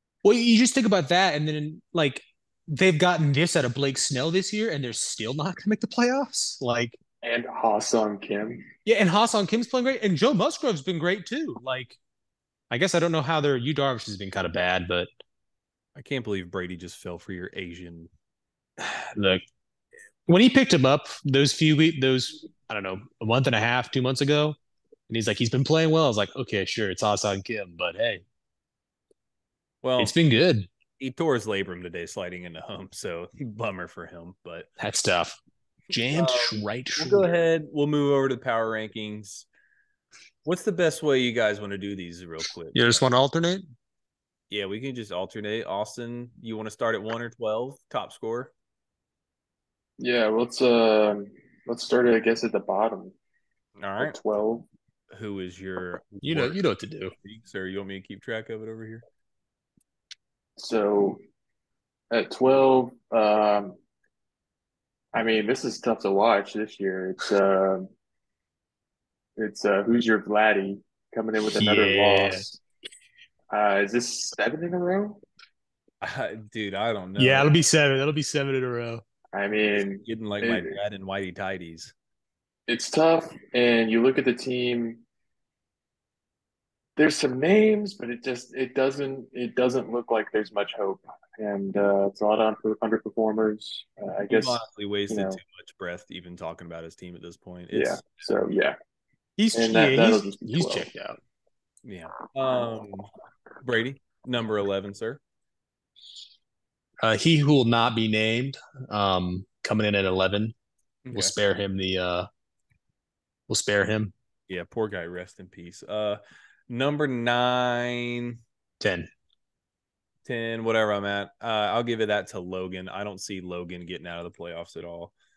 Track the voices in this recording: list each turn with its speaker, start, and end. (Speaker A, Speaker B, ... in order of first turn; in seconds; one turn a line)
Speaker A: 0.2-7.0
Speaker B: 7.2-8.7
Speaker A: 8.8-12.0
Speaker A: 12.7-15.1
Speaker C: 15.9-18.1
Speaker A: 18.8-19.4
Speaker A: 20.3-24.6
Speaker A: 25.1-28.2
Speaker C: 29.8-30.1
Speaker A: 30.0-30.7
Speaker C: 31.0-34.7
Speaker A: 34.8-37.3
Speaker C: 36.1-39.5
Speaker C: 40.4-43.0
Speaker A: 42.7-43.7
Speaker C: 44.5-48.5
Speaker B: 50.0-53.1
Speaker C: 53.8-54.1
Speaker B: 54.0-54.7
Speaker C: 55.1-56.6
Speaker A: 56.2-57.1
Speaker C: 57.2-59.0
Speaker B: 60.6-61.2
Speaker B: 62.1-63.8
Speaker B: 65.1-67.9
Speaker B: 69.4-72.6
Speaker A: 71.5-72.4
Speaker B: 73.5-75.2
Speaker C: 76.0-77.5
Speaker A: 77.2-79.0
Speaker B: 79.3-80.8
Speaker C: 79.7-81.9
Speaker B: 82.7-85.0
Speaker B: 87.0-95.4
Speaker C: 94.3-98.2
Speaker B: 97.7-98.8
Speaker A: 99.4-101.2
Speaker B: 99.5-100.9
Speaker C: 101.8-103.1
Speaker C: 103.6-105.2
Speaker A: 107.0-110.5
Speaker C: 111.0-111.3
Speaker A: 111.1-112.3
Speaker A: 113.5-114.1
Speaker C: 114.5-118.4
Speaker A: 118.8-119.1
Speaker C: 120.2-125.1